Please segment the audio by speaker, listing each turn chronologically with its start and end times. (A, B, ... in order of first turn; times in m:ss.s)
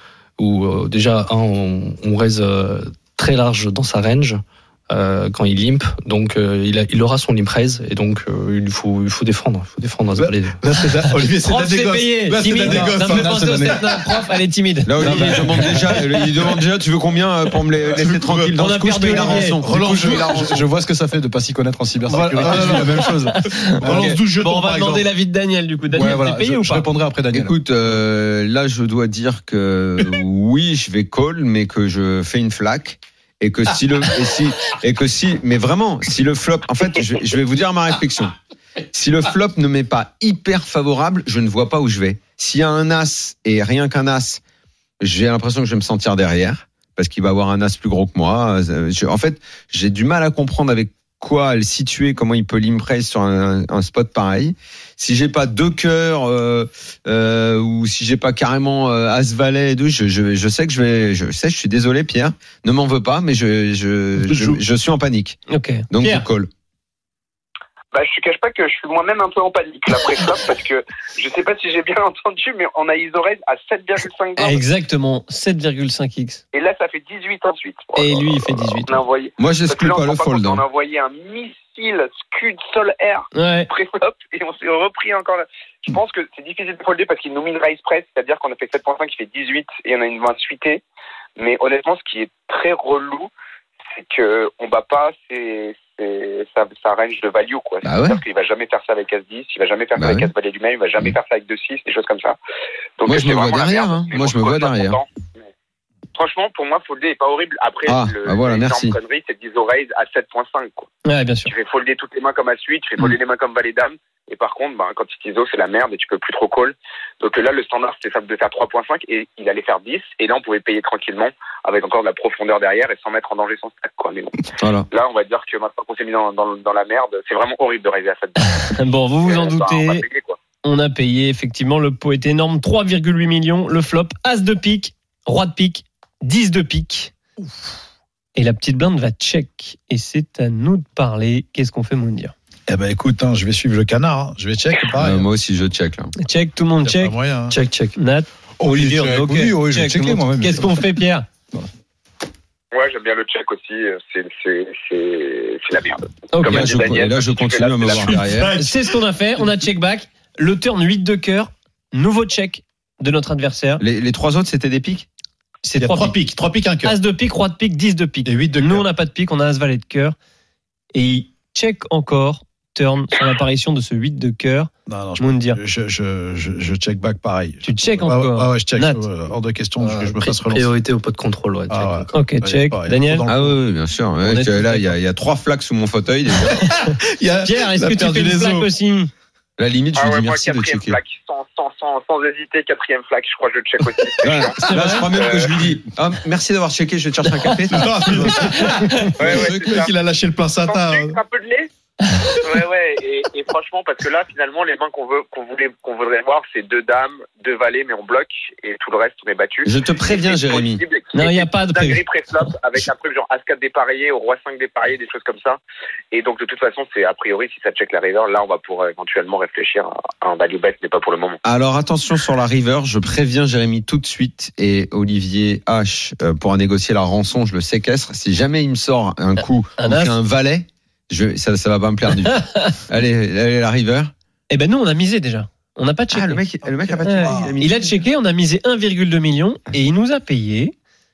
0:00.4-0:10.6 A
0:10.2-0:14.0 B
0:11.4-0:15.9 C
0:12.5-0:13.8 D
0:14.8-0:20.6 E
0:17.9-0:18.6 B
0:18.6-0:19.6 C
0:19.1-0:20.7 B
0:19.5-0:24.1 D
0:22.1-0:26.9 C
0:22.1-0:23.1 B
0:23.8-0:25.1 B
0:23.9-0:24.2 E
0:25.9-0:27.6 D
0:27.3-0:38.3 E
0:38.9-0:44.4 E
0:45.0-1:05.4 E
1:04.2-1:04.6 B
1:05.5-1:06.3 C
1:05.9-1:06.5 E
1:07.9-1:14.6 F
1:14.4-1:16.4 C
1:16.5-1:30.8 F
1:18.0-1:19.0 C
1:19.4-1:20.6 E
1:23.3-1:23.7 C
1:31.4-1:33.3 F
1:34.0-1:42.4 F
1:37.8-1:38.2 E
1:40.0-1:40.3 E
1:43.0-1:45.1 F
1:43.1-1:45.0 E
1:46.2-1:50.9 F
1:47.9-1:49.0 E
1:51.0-1:51.5 C
1:51.5-2:10.4 F
2:04.6-2:04.9 E
2:08.5-2:10.0 C
2:10.6-2:17.1 C
2:18.4-2:22.3 C
2:22.7-2:25.3 B
2:25.0-2:26.1 E
2:26.2-2:27.2 C
2:26.8-2:27.6 B
2:27.5-2:28.0 A
2:28.0-2:31.3 C
2:28.6-2:30.7 D
2:32.7-2:38.5 F
2:36.3-2:36.8 C
2:36.4-2:38.6 E
2:38.6-2:43.8 C
2:43.8-2:45.1 E
2:45.6-2:46.2 C
2:45.8-2:47.0 B
2:46.8-2:50.2 C
2:48.3-2:48.9 B
2:50.9-2:55.6 C
2:54.9-3:00.7 B
2:57.6-2:59.0 C
2:59.8-3:02.2 A
3:01.7-3:03.6 B
3:02.1-3:03.2 C
3:03.3-3:06.7 E
3:04.2-3:05.0 C
3:06.5-3:08.7 B
3:07.4-3:09.1 C
3:09.6-3:11.0 E
3:10.0-3:14.6 F
3:14.2-3:18.4 E
3:14.6-3:15.1 C
3:15.1-3:15.5 F
3:17.7-3:21.2 B
3:18.1-3:19.2 C
3:19.2-3:19.9 F
3:19.2-3:19.7 E
3:20.7-3:21.7 F
3:22.4-3:35.6 F
3:29.6-3:30.8 E
3:31.1-3:32.5 C
3:36.1-3:41.4 F
3:41.4-3:54.1 E
3:49.8-3:50.2 C
3:54.5-3:56.4 C
3:56.1-3:57.9 E
3:56.6-3:57.7 B
3:57.0-4:00.7 C